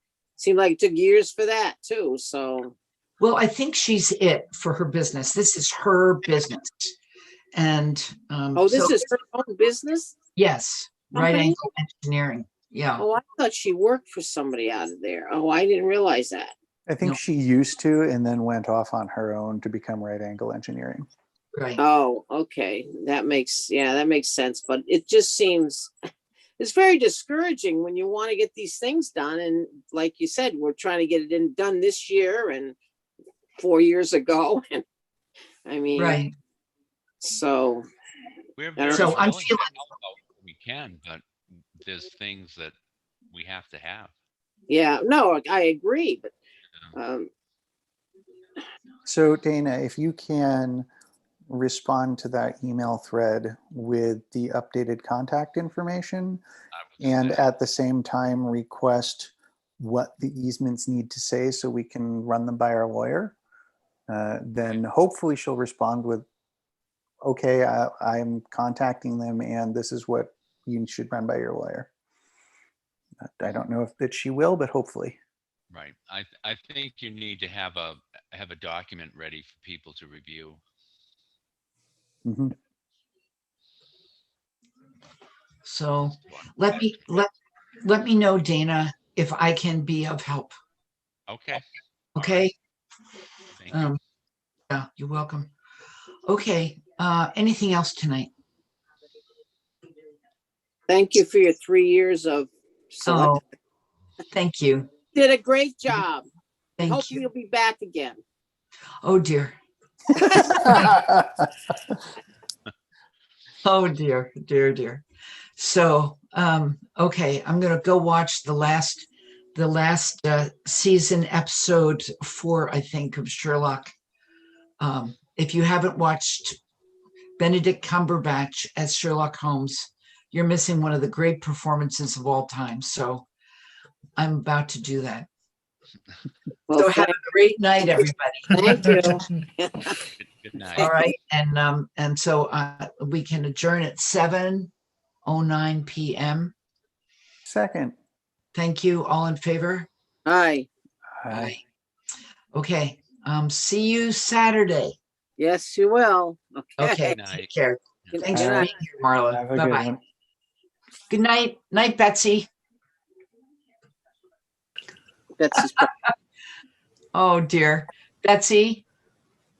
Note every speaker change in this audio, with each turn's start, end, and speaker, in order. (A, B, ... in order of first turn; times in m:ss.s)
0:00.4-0:02.7 A
0:03.2-0:06.9 B
0:07.5-0:09.0 B
0:08.5-0:10.2 A
0:10.4-0:13.0 B
0:11.1-0:11.6 A
0:13.0-0:16.5 A
0:16.9-0:21.1 C
0:21.6-0:21.8 B
0:21.8-0:25.9 A
0:26.6-0:32.8 A
0:33.6-0:34.8 A
0:35.6-0:36.2 A
0:36.0-0:36.3 B
0:37.2-0:37.9 A
0:38.6-0:42.7 D
0:38.8-0:39.2 A
0:38.9-0:39.8 B
0:43.3-0:44.1 D
0:44.7-0:46.3 A
0:46.9-0:47.3 A
0:49.0-0:50.9 C
0:51.5-0:56.4 C
0:56.8-0:57.4 D
0:57.0-1:03.4 C
1:04.1-1:06.2 C
1:07.2-1:11.9 C
1:13.2-1:15.2 C
1:15.7-1:20.6 D
1:22.2-1:22.5 C
1:25.6-1:27.3 B
1:26.3-1:26.9 D
1:27.8-1:30.5 B
1:31.3-1:32.5 D
1:32.1-1:32.5 B
1:33.6-1:34.0 D
1:33.7-1:34.0 B
1:34.7-1:35.5 B
1:36.2-1:38.3 B
1:40.9-1:43.3 A
1:43.0-1:43.4 B
1:44.3-1:44.9 B
1:45.1-1:46.3 A
1:46.8-1:47.2 B
1:46.8-1:48.2 A
1:49.0-1:49.5 B
1:50.2-1:50.8 B
1:50.6-1:51.2 C
1:53.6-1:55.0 B
1:55.6-2:03.9 B
2:04.8-2:06.6 B
2:07.4-2:13.2 B
2:14.2-2:15.3 B
2:16.7-2:17.2 A
2:16.8-2:18.5 B
2:17.8-2:20.0 A
2:20.2-2:20.9 D
2:20.8-2:24.7 B
2:20.8-2:21.0 A
2:25.2-2:26.5 B
2:27.4-2:27.9 C
2:28.5-2:29.9 B
2:30.2-2:30.7 A
2:31.2-2:31.6 C
2:31.3-2:31.6 B
2:32.5-2:35.0 B
2:35.4-2:37.0 A
2:36.8-2:39.9 B
2:37.0-2:37.5 D
2:38.1-2:38.4 D
2:38.1-2:38.7 A
2:38.3-2:38.6 C
2:39.3-2:40.0 C
2:41.1-2:42.5 B
2:45.4-2:45.9 A
2:47.1-2:48.8 B